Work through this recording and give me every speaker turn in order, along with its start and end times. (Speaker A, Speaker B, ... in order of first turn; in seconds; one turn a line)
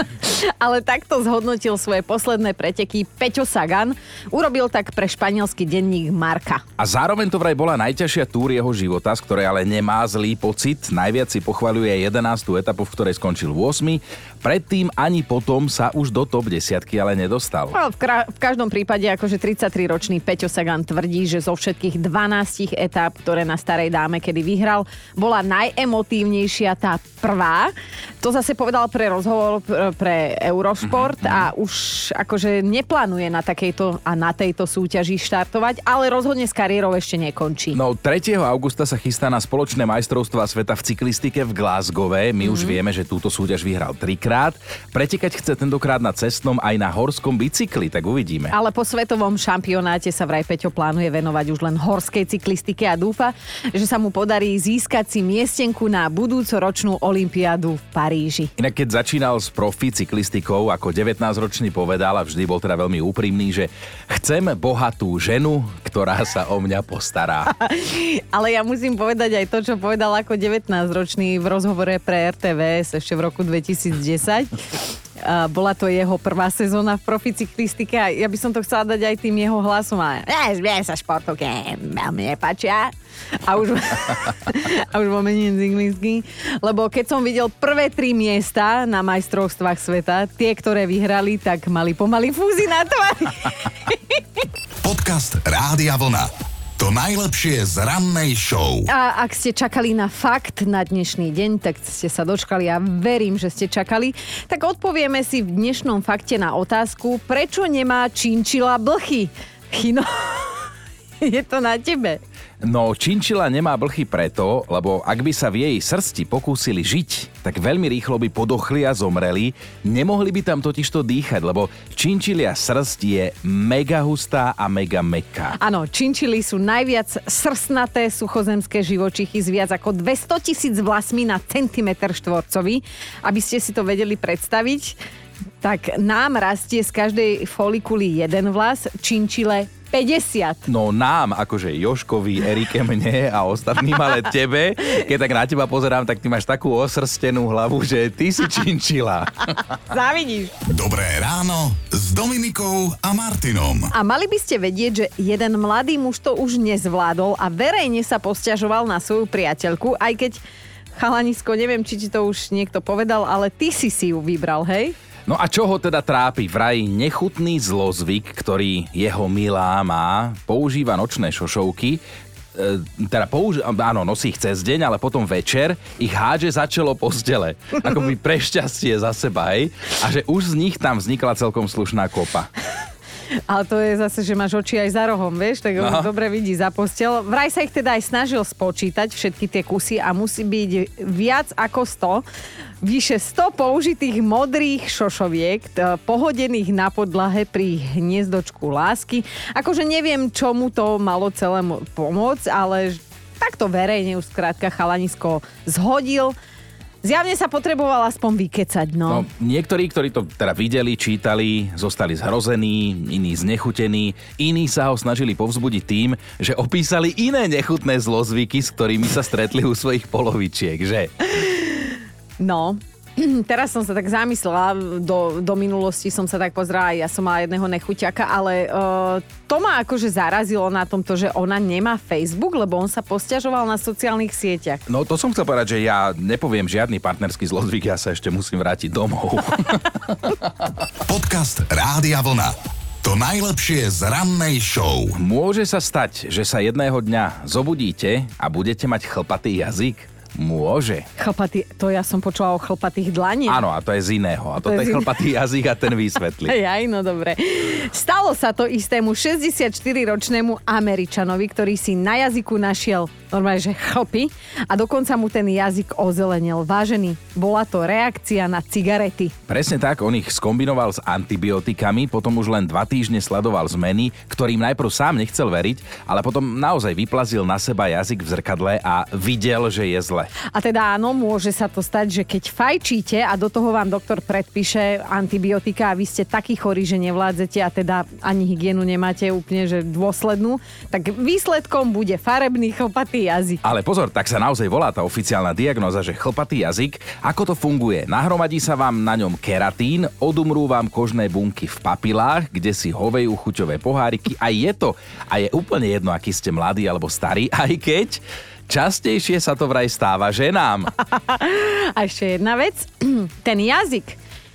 Speaker A: 0.2-6.6
Speaker B: 6.8-17.8
Speaker A: 17.7-37.8
Speaker B: 30.9-31.5
Speaker B: 37.8-48.5
Speaker A: 42.4-42.8
Speaker A: 48.5-58.5
Speaker B: 58.6-67.5
Speaker A: 67.5-74.6
Speaker A: 75.2-82.9
Speaker A: 83.5-94.2
Speaker C: 94.8-98.9
Speaker A: 98.9-110.7
Speaker A: 111.2-112.2
Speaker B: 112.6-125.6
Speaker A: 125.6-135.0
Speaker A: 135.6-140.6
Speaker B: 140.7-149.6
Speaker A: 149.9-150.5
Speaker C: 150.7-153.9
Speaker A: 153.9-160.4
Speaker A: 161.0-165.0
Speaker B: 165.3-172.0
Speaker B: 172.5-182.5
Speaker A: 183.5-192.2
Speaker B: 185.8-186.1
Speaker A: 192.8-206.3
Speaker A: 207.0-209.3
Speaker B: 209.1-221.1
Speaker A: 221.3-234.8
Speaker B: 234.9-240.4
Speaker C: 241.1-245.1
Speaker B: 245.2-251.1
Speaker A: 251.2-253.6
Speaker B: 253.5-256.6
Speaker A: 254.6-255.1
Speaker A: 256.5-269.3
Speaker B: 269.5-280.3
Speaker A: 280.5-293.6
Speaker B: 293.6-310.9
Speaker A: 311.0-314.2